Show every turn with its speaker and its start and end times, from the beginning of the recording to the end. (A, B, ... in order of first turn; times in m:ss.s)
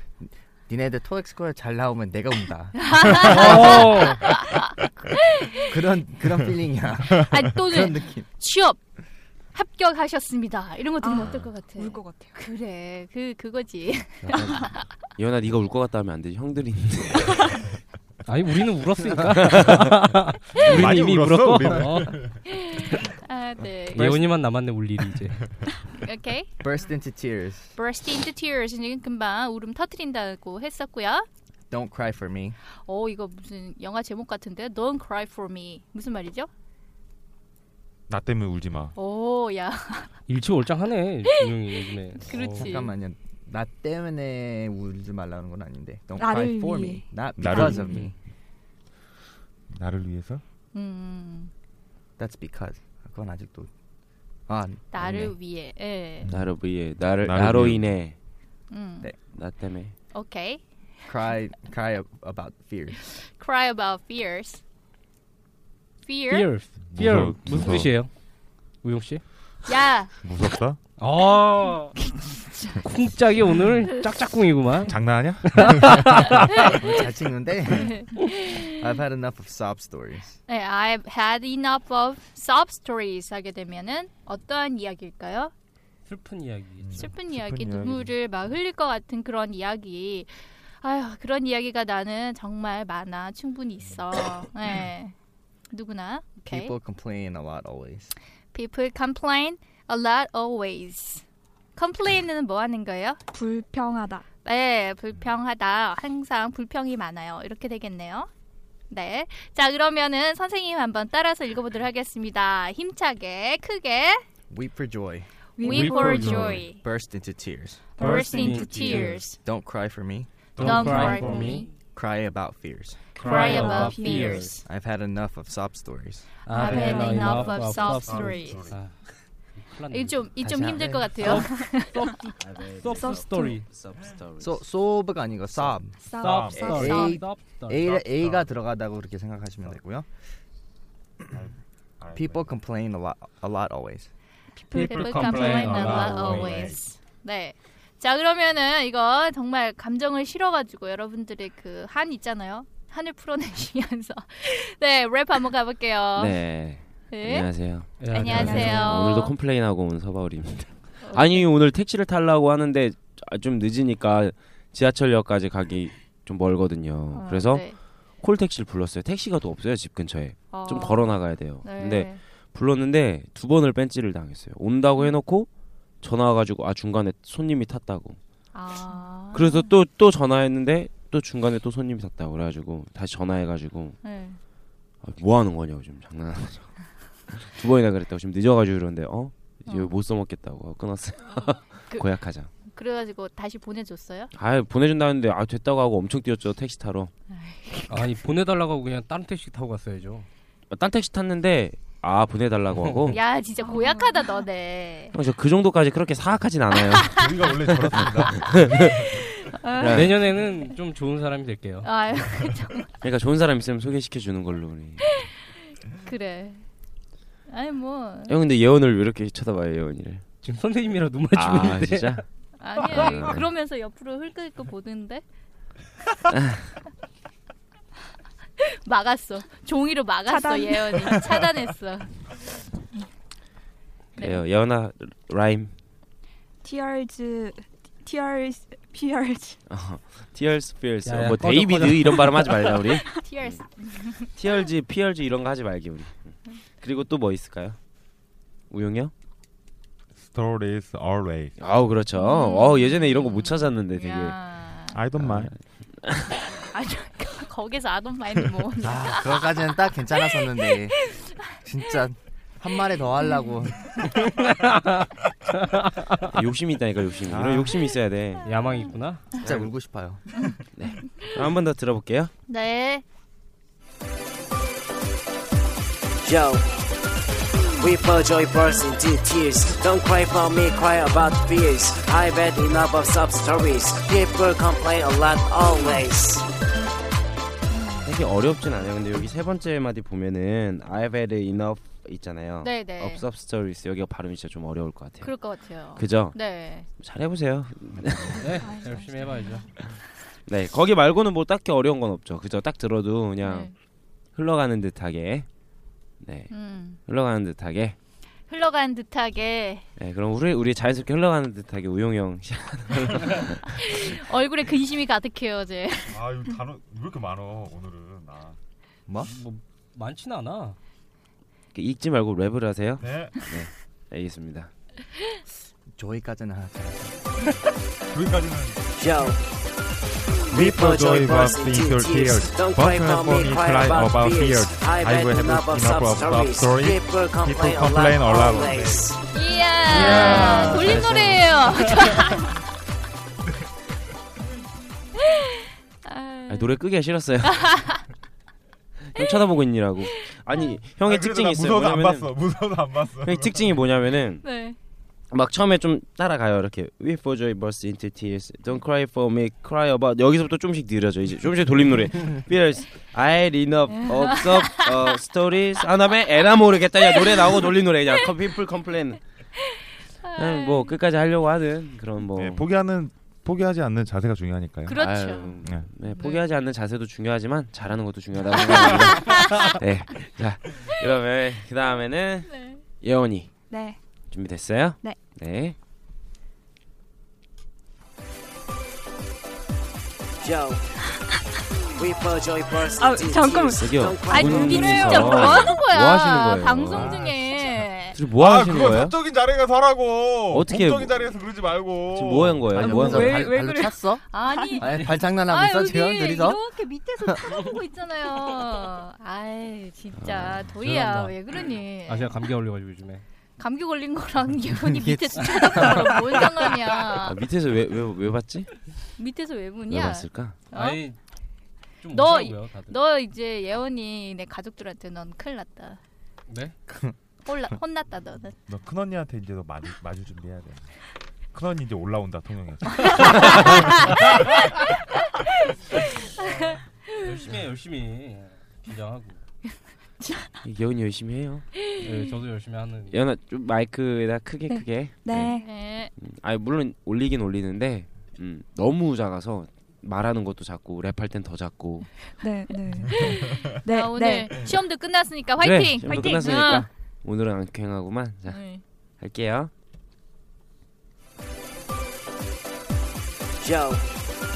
0:00.2-0:04.3 A
0:02.8-0:04.7 B
0:03.1-0:03.4 C
0:03.3-0:04.2 D
0:05.4-0:05.7 B
0:05.6-0:08.3 A
0:07.2-0:08.8 B
0:09.5-0:14.9 B
0:11.0-0:12.4 E
0:14.2-0:17.6 F
0:18.2-0:22.2 D
0:19.4-0:19.8 F
0:20.6-0:22.4 C
0:22.5-0:24.2 B
0:23.9-0:25.5 D
0:25.9-0:26.5 B
0:26.6-0:27.7 A
0:27.7-0:31.2 B
0:31.7-0:32.6 A
0:32.8-0:36.5 B
0:38.1-0:38.9 C
0:39.0-0:40.2 B
0:40.3-0:42.4 D
0:41.2-0:41.6 B
0:42.2-0:42.9 B
0:42.3-0:42.9 C
0:42.5-0:48.1 A
0:46.2-0:47.2 E
0:47.4-0:48.1 C
0:47.7-0:48.1 D
0:49.7-0:50.4 C
0:50.7-0:51.5 B
0:52.2-0:53.7 A
0:54.5-0:55.4 A
0:54.9-0:56.3 B
0:56.2-0:56.6 C
0:56.3-0:58.1 F
0:57.1-0:58.0 C
0:58.7-0:59.1 B
0:59.3-0:59.9 F
1:00.1-1:00.6 B
1:01.1-1:03.0 A
1:02.9-1:04.6 B
1:06.0-1:06.5 B
1:06.3-1:08.1 D
1:06.8-1:08.0 C
1:08.8-1:09.2 D
1:09.6-1:10.2 B
1:10.2-1:10.8 C
1:11.0-1:12.1 D
1:12.1-1:12.8 B
1:12.8-1:16.4 D
1:14.9-1:16.1 C
1:16.5-1:16.9 B
1:16.6-1:18.0 A
1:17.8-1:18.7 B
1:18.6-1:20.4 A
1:20.5-1:25.5 B
1:26.1-1:27.1 D
1:26.8-1:28.1 C
1:26.9-1:35.1 B
1:35.7-1:36.7 B
1:36.5-1:38.1 A
1:38.5-1:41.2 B
1:41.8-1:43.2 B
1:43.3-1:44.2 E
1:44.4-1:48.3 B
1:48.9-1:54.2 B
1:54.5-1:55.3 A
1:55.6-1:56.6 E
1:55.6-1:56.8 B
1:55.7-1:56.7 D
1:56.6-1:58.0 A
1:58.0-1:59.2 E
1:58.0-1:59.4 B
1:58.0-1:59.2 D
1:58.1-1:59.0 C
1:59.4-2:00.3 A
2:00.6-2:01.6 C
2:00.6-2:01.7 D
2:00.6-2:01.7 B
2:01.7-2:03.1 A
2:03.2-2:04.6 D
2:03.2-2:04.6 B
2:03.3-2:04.5 E
2:04.6-2:06.3 A
2:06.4-2:09.0 D
2:06.5-2:08.7 B
2:06.5-2:07.4 E
2:07.3-2:08.8 C
2:09.6-2:10.3 D
2:09.9-2:12.3 B
2:10.4-2:11.4 A
2:11.2-2:13.6 D
2:12.4-2:14.6 F
2:13.0-2:13.6 E
2:14.4-2:15.9 A
2:15.6-2:16.7 C
2:16.0-2:17.2 E
2:16.2-2:17.9 D
2:16.5-2:20.1 A
2:17.8-2:18.5 C
2:21.3-2:22.5 C
2:22.1-2:24.1 A
2:24.6-2:25.4 E
2:24.7-2:36.4 B
2:24.7-2:26.8 C
2:24.9-2:26.4 D
2:26.0-2:26.4 F
2:36.1-2:55.5 F
2:37.1-2:39.4 B
2:38.0-2:39.0 D
2:41.0-2:41.5 B
2:47.1-2:47.8 B
2:50.5-2:52.2 B
2:56.0-2:58.2 F
2:58.5-2:59.7 B
2:59.3-3:04.0 F
3:04.0-3:04.4 B
3:05.0-3:12.5 F
3:09.7-3:10.0 B
3:11.4-3:12.1 B
3:12.7-3:14.3 B
3:14.3-3:17.1 F
3:17.3-3:18.0 B
3:17.9-3:20.3 D
3:20.7-3:23.2 F
3:22.7-3:23.2 D
3:23.1-3:25.2 B
3:23.6-3:24.4 E
3:25.1-3:27.1 F
3:27.0-3:29.2 C
3:28.0-3:29.0 F
3:28.0-3:28.4 B
3:29.1-3:30.3 B
3:29.8-3:30.2 F
3:29.9-3:31.9 D
3:31.8-3:32.9 B
3:33.0-3:35.2 F
3:35.0-3:36.6 B
3:37.5-3:38.3 B
3:38.3-3:40.2 F
3:40.4-3:42.2 D
3:41.3-3:42.2 F
3:42.6-3:45.2 B
3:42.8-3:43.5 F
3:46.3-3:46.7 F
3:48.6-3:52.4 B
3:50.2-3:51.2 E
3:54.2-3:55.7 F
3:54.2-3:54.4 B
3:56.6-3:59.6 E
3:59.7-4:03.6 F
4:01.0-4:02.8 D
4:03.0-4:03.2 E
4:03.1-4:04.3 B
4:04.2-4:07.8 F
4:08.7-4:09.1 F
4:10.2-4:11.6 C
4:11.6-4:14.4 F
4:12.1-4:15.0 B
4:14.9-4:15.5 C
4:15.2-4:16.3 F
4:16.5-4:19.6 B
4:18.8-4:24.0 A
4:20.3-4:21.6 B
4:24.1-4:26.3 D
4:26.3-4:28.6 F
4:27.3-4:27.8 C
4:28.4-4:29.4 D
4:29.4-4:30.2 A
4:29.4-4:29.7 F
4:30.3-4:30.6 B
4:30.8-4:32.3 F
4:32.5-4:33.0 B
4:36.2-4:36.8 G
4:37.8-4:46.4 G
4:47.7-4:48.1 B
4:48.0-4:58.6 F
4:52.6-4:53.2 B
4:55.2-4:56.9 B
4:58.3-4:59.7 D
4:58.6-4:59.6 E
5:00.4-5:03.7 F
5:03.4-5:03.7 B
5:04.3-5:05.5 F
5:06.2-5:08.0 F
5:06.5-5:07.0 B
5:08.5-5:09.8 B
5:10.0-5:14.1 F
5:13.6-5:16.2 B
5:16.1-5:18.6 C
5:19.1-5:19.3 A
5:19.2-5:20.8 D
5:21.7-5:24.7 F
5:23.0-5:23.4 C
5:25.9-5:27.4 A
5:28.1-5:29.4 C
5:29.0-5:29.4 G
5:30.5-5:39.1 C
5:30.5-5:39.2 G
5:39.3-5:42.5 B
5:39.9-5:41.6 F
5:39.9-5:41.0 C
5:39.9-5:40.8 A
5:45.2-5:46.7 B
5:46.5-5:47.8 F
5:47.5-5:48.0 B
5:49.0-5:52.3 F
5:51.0-5:53.9 C
5:53.2-5:54.4 F
5:54.4-5:54.8 B
5:55.3-6:09.2 F
6:04.0-6:05.1 B
6:07.2-6:07.6 B
6:10.2-6:11.0 B
6:10.3-6:12.6 F
6:12.3-6:15.0 C
6:14.8-6:16.4 B
6:14.9-6:23.5 F
6:15.6-6:15.9 C
6:18.8-6:19.6 B
6:22.4-6:22.8 B
6:23.7-6:24.0 E
6:24.3-6:25.8 F
6:30.4-6:30.8 G
6:32.0-6:35.7 G
6:33.0-6:33.8 E
6:33.8-6:37.2 F
6:34.3-6:38.2 B
6:34.6-6:35.3 E
6:36.9-6:42.8 C
6:38.1-6:39.2 F
6:40.5-6:41.4 F
6:42.1-6:43.4 F
6:42.7-6:44.2 A
6:42.7-6:44.8 E
6:44.3-6:52.3 B
6:44.8-6:46.6 A
6:50.2-6:50.7 F
6:50.7-6:51.4 D
6:52.0-6:53.2 D
6:53.6-6:57.4 B
6:54.7-6:56.7 A
6:57.2-6:58.7 F
6:59.2-7:01.0 B
6:59.9-7:00.6 F
7:00.7-7:01.2 D
7:02.0-7:03.0 D
7:02.1-7:06.0 B
7:06.5-7:06.8 D
7:06.9-7:07.1 A
7:07.4-7:08.6 B
7:08.7-7:10.9 C
7:11.5-7:14.2 C
7:13.3-7:14.2 B
7:13.4-7:13.8 F
7:14.8-7:17.1 B
7:17.1-7:19.4 D
7:20.6-7:21.8 F
7:22.0-7:23.2 D
7:23.1-7:32.1 F
7:24.7-7:25.8 E
7:25.6-7:26.1 B
7:32.3-7:34.6 E
7:33.1-7:36.9 B
7:35.6-7:38.6 F
7:38.4-7:38.8 B
7:39.2-7:39.7 F
7:43.6-7:44.0 G